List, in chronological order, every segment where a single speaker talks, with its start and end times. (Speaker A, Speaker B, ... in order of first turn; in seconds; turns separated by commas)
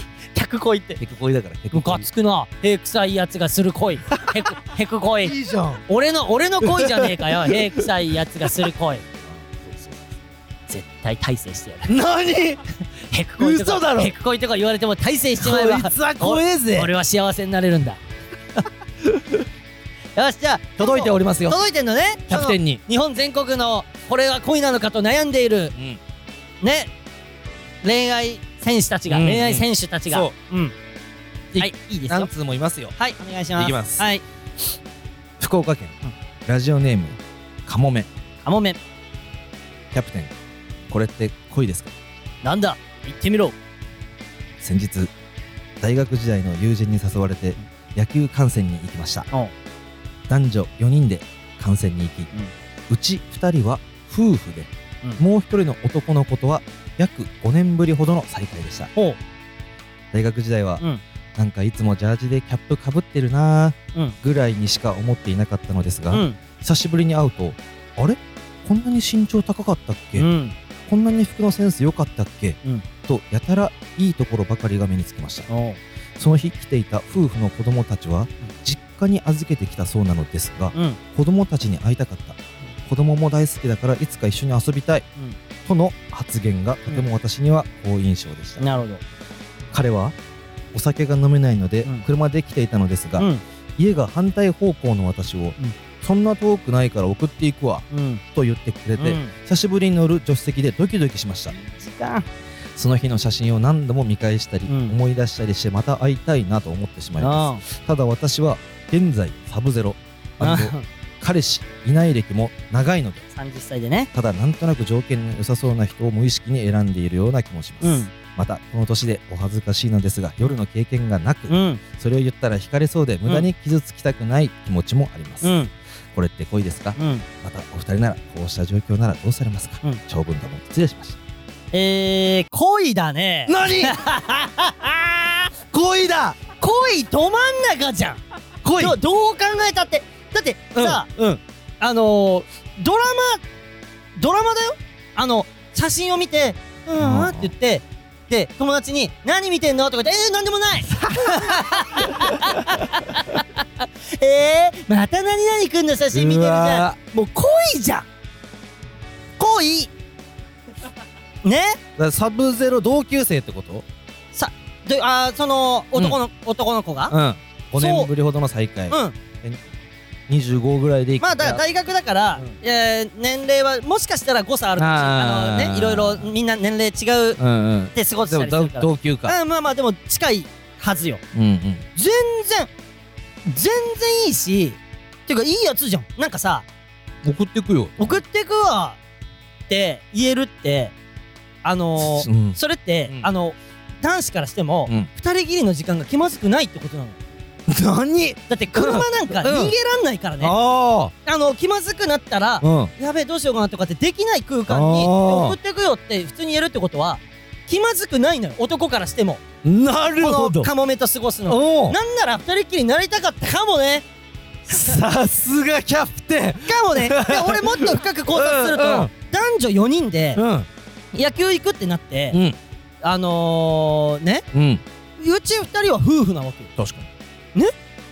Speaker A: 0.3-1.0, Speaker B: 1.0-2.1, Speaker A: 1.7-5.3, Speaker B: 5.2-5.8, Speaker A: 5.9-9.0, Speaker B: 6.6-7.8, Speaker B: 9.2-10.0, Speaker A: 10.7-11.9, Speaker B: 11.8-12.6, Speaker A: 13.1-18.0, Speaker B: 13.4-14.1, Speaker B: 15.4-16.9, Speaker B: 19.0-19.4, Speaker A: 20.1-25.7, Speaker B: 20.8-21.6, Speaker B: 22.3-22.8, Speaker B: 25.7-26.0, Speaker A: 26.6-26.9, Speaker A: 27.8-30.7, Speaker B: 29.1-30.3, Speaker B: 31.5-32.9, Speaker A: 31.6-32.3, Speaker A: 33.0-34.2, Speaker B: 33.6-34.0, Speaker B: 35.4-38.1, Speaker A: 38.4-38.8, Speaker B: 39.9-40.3, Speaker B: 40.9-41.9, Speaker A: 42.4-43.5, Speaker B: 44.6-45.1, Speaker B: 45.8-49.3, Speaker B: 50.3-52.3, Speaker B: 52.9-58.9, Speaker B: 60.1-60.8, Speaker B: 61.4-70.3, Speaker A: 66.1-66.4, Speaker A: 70.2-70.5, Speaker B: 70.9-75.5, Speaker A: 75.5-75.8, Speaker B: 76.2-85.0, Speaker A: 80.7-81.0, Speaker B: 85.6-88.6, Speaker A: 88.6-89.0, Speaker B: 89.7-90.2, Speaker B: 90.7-101.5, Speaker A: 93.2-93.4, Speaker A: 97.9-98.2, Speaker A: 99.0-99.3, Speaker A: 101.5-102.2, Speaker B: 102.7-113.2, Speaker A: 104.7-105.0, Speaker A: 107.2-107.6, Speaker A: 110.4-110.8, Speaker A: 113.3-114.1, Speaker B: 114.1-125.5, Speaker A: 117.8-118.1, Speaker A: 121.5-121.8, Speaker A: 125.4-125.7, Speaker B: 126.1-131.2, Speaker A: 127.0-127.2, Speaker A: 131.7-135.5, Speaker B: 133.5-134.0, Speaker B: 135.7-136.4, Speaker A: 136.6-138.2, Speaker B: 138.6-139.0, Speaker A: 138.8-141.1, Speaker B: 140.7-141.4, Speaker A: 141.8-143.4, Speaker A: 144.2-158.1, Speaker B: 147.0-147.5, Speaker B: 150.9-152.8, Speaker B: 156.1-157.0, Speaker A: 159.4-159.9, Speaker A: 161.4-161.8, Speaker B: 162.0-163.8, Speaker A: 164.3-167.1, Speaker B: 167.1-169.6, Speaker A: 167.8-168.1, Speaker A: 168.9-169.2, Speaker B: 170.3-171.6, Speaker A: 171.2-177.4, Speaker B: 174.8-176.3, Speaker B: 177.4-179.3, Speaker A: 177.9-181.2, Speaker B: 181.3-181.8, Speaker A: 181.9-182.7, Speaker A: 183.4-186.7, Speaker B: 187.2-188.2, Speaker A: 188.0-189.0, Speaker A: 189.7-190.9, Speaker A: 191.6-197.2, Speaker B: 192.0-193.3, Speaker B: 197.7-199.7, Speaker A: 198.5-200.5, Speaker B: 200.4-201.1, Speaker A: 201.2-209.4, Speaker B: 202.6-202.9, Speaker B: 204.7-205.6, Speaker B: 209.6-210.7, Speaker A: 210.2-214.1, Speaker B: 211.5-212.0, Speaker A: 214.7-215.0, Speaker B: 214.7-219.1, Speaker A: 216.6-220.4, Speaker B: 220.3-220.7, Speaker A: 221.1-222.4, Speaker B: 222.3-222.6, Speaker A: 223.0-224.4, Speaker B: 224.5-224.8, Speaker A: 225.2-226.7, Speaker B: 226.8-227.1